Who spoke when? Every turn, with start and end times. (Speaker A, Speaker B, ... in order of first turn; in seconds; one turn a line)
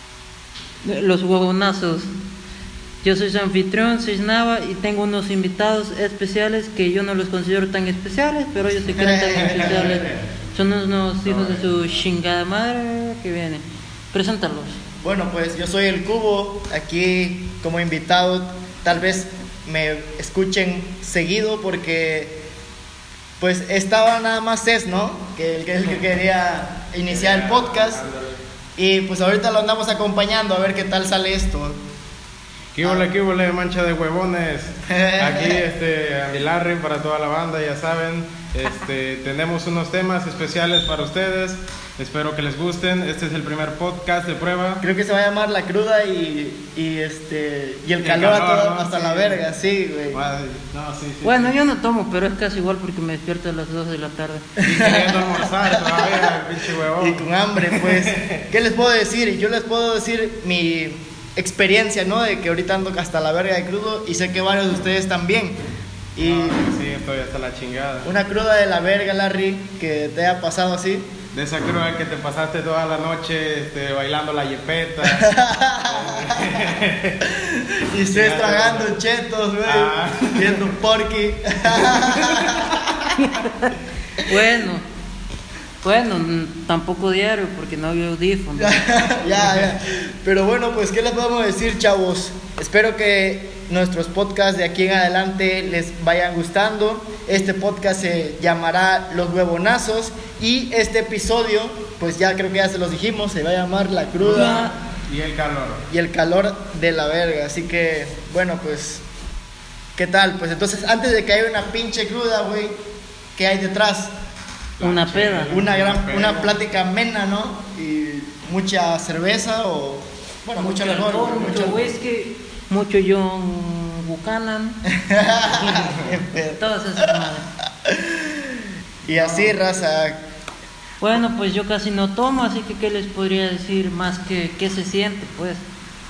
Speaker A: 0.8-2.1
Speaker A: 3.0-14.8
Speaker B: 8.9-10.1
Speaker C: 9.3-10.2
Speaker C: 11.2-12.0
Speaker B: 15.0-22.3
Speaker B: 23.4-28.0
Speaker C: 27.1-28.4
Speaker B: 28.8-31.8
Speaker C: 32.7-44.8
Speaker B: 32.8-33.1
Speaker B: 34.9-35.6
Speaker B: 44.8-50.2
Speaker C: 48.0-49.4
Speaker C: 50.1-51.5
Speaker A: 51.2-54.5
Speaker B: 54.6-56.4
Speaker C: 54.6-58.4
Speaker B: 57.0-65.6
Speaker B: 66.2-66.6
Speaker C: 66.2-68.1
Speaker B: 68.0-71.1
Speaker C: 71.3-75.3
Speaker B: 75.0-76.6
Speaker C: 75.9-77.2
Speaker B: 77.2-82.8
Speaker C: 78.1-78.9
Speaker C: 79.7-80.7
Speaker C: 81.7-82.8
Speaker A: 83.3-84.8
Speaker A: 85.8-88.8
Speaker B: 88.5-104.7
Speaker C: 104.2-105.8
Speaker A: 104.3-104.7
Speaker B: 105.9-109.0
Speaker B: 110.0-112.7
Speaker B: 113.3-114.1
Speaker C: 114.8-116.5
Speaker A: 114.8-115.5
Speaker B: 115.5-121.9
Speaker A: 120.6-124.8
Speaker B: 125.0-126.6
Speaker A: 126.6-127.5
Speaker B: 127.8-130.2
Speaker A: 129.2-129.6
Speaker A: 131.0-135.6